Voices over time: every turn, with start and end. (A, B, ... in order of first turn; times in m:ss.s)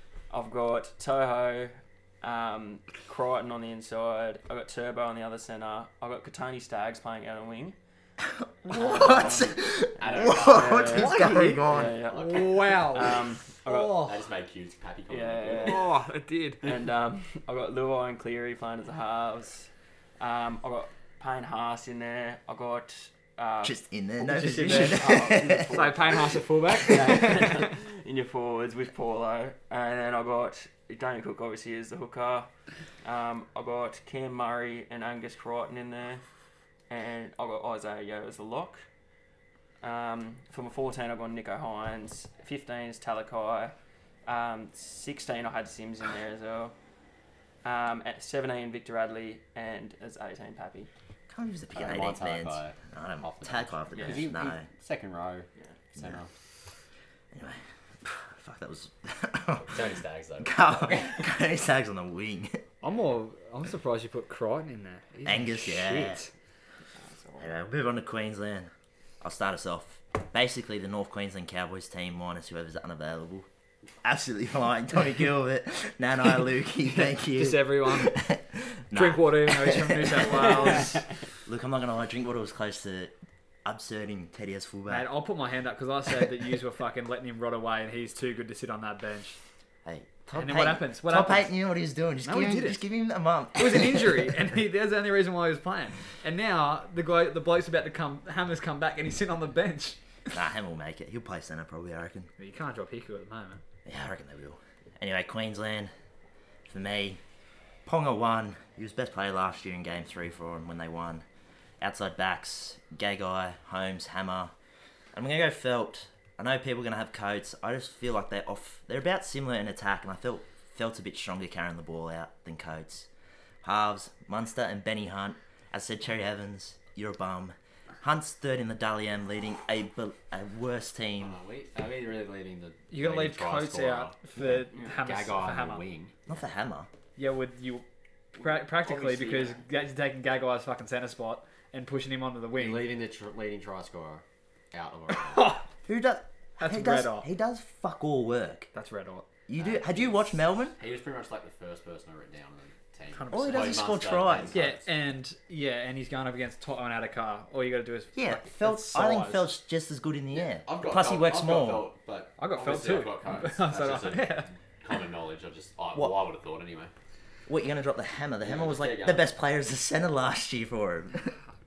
0:00.3-0:07.8 A
0:08.2-0:12.0 B
0:08.7-0:14.0 A
0:10.0-0:11.2 C
0:11.0-0:11.6 D
0:11.7-0:13.2 C
0:12.1-0:14.2 D
0:13.8-0:15.9 C
0:15.1-0:15.9 A
0:15.6-0:16.7 D
0:16.6-0:32.5 A
0:23.6-0:25.8 B
0:24.2-0:27.7 D
0:26.8-0:27.2 B
0:33.0-0:36.2 A
0:36.9-0:38.9 A
0:39.8-0:43.8 A
0:44.3-0:46.7 A
0:47.6-0:50.9 A
0:51.3-0:54.7 B
0:51.8-0:56.3 C
0:53.9-0:54.3 A
0:56.0-0:56.2 B
0:57.3-1:02.6 B
0:59.7-1:01.3 C
1:02.8-1:06.3 D
1:05.2-1:06.2 B
1:06.9-1:07.6 A
1:07.4-1:13.5 B
1:14.0-1:25.1 B
1:16.9-1:18.2 D
1:18.9-1:21.0 D
1:24.9-1:29.4 D
1:29.8-1:34.4 B
1:30.3-1:31.5 D
1:32.2-1:32.8 D
1:33.6-1:40.0 D
1:40.3-1:42.3 B
1:42.4-1:43.6 D
1:43.8-1:45.9 B
1:46.7-1:47.2 B
1:47.9-1:51.2 B
1:51.8-1:54.5 B
1:55.1-2:03.1 B
2:03.6-2:11.4 B
2:11.2-2:16.2 C
2:12.9-2:15.8 D
2:16.3-2:16.9 B
2:17.2-2:22.9 D
2:18.4-2:19.6 A
2:22.6-2:25.6 C
2:25.1-2:25.7 D
2:25.9-2:28.7 B
2:26.6-2:27.3 D
2:28.7-2:29.3 D
2:29.5-2:30.8 B
2:29.6-2:34.9 C
2:33.1-2:33.9 D
2:33.3-2:34.6 B
2:34.5-2:39.5 D
2:38.2-2:41.9 B
2:40.3-2:46.9 C
2:42.4-2:44.5 D
2:47.5-2:51.4 B
2:48.4-2:49.3 C